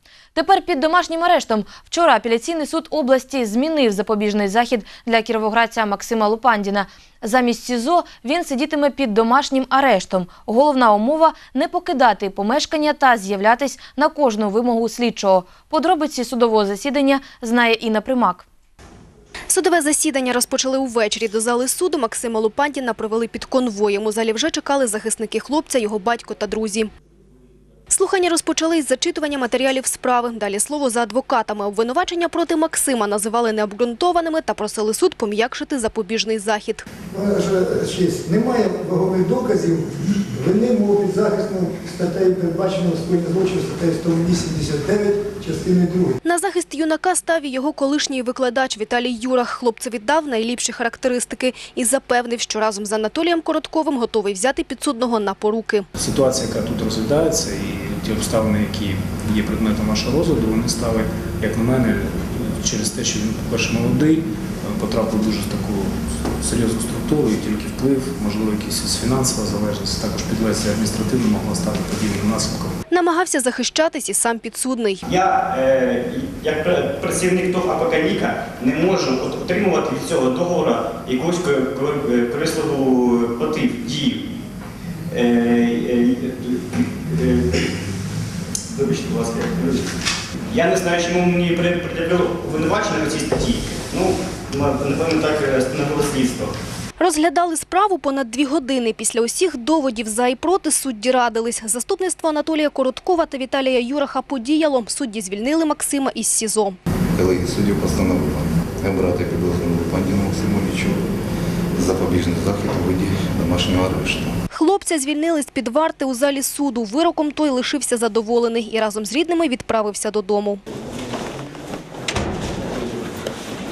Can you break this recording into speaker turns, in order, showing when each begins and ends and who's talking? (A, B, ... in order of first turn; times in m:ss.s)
0:00.3-0:18.4 A
0:19.5-0:26.9 B
0:27.9-0:36.8 B
0:37.1-0:46.2 C
0:46.2-0:55.9 B
0:56.0-1:12.7 D
1:12.9-1:15.0 B
1:15.0-1:24.2 E
1:25.1-1:27.8 E
1:28.7-1:29.8 E
1:30.5-1:36.5 E
1:37.0-1:46.8 B
1:47.1-1:51.0 F
1:51.8-1:54.4 F
1:54.5-2:00.6 B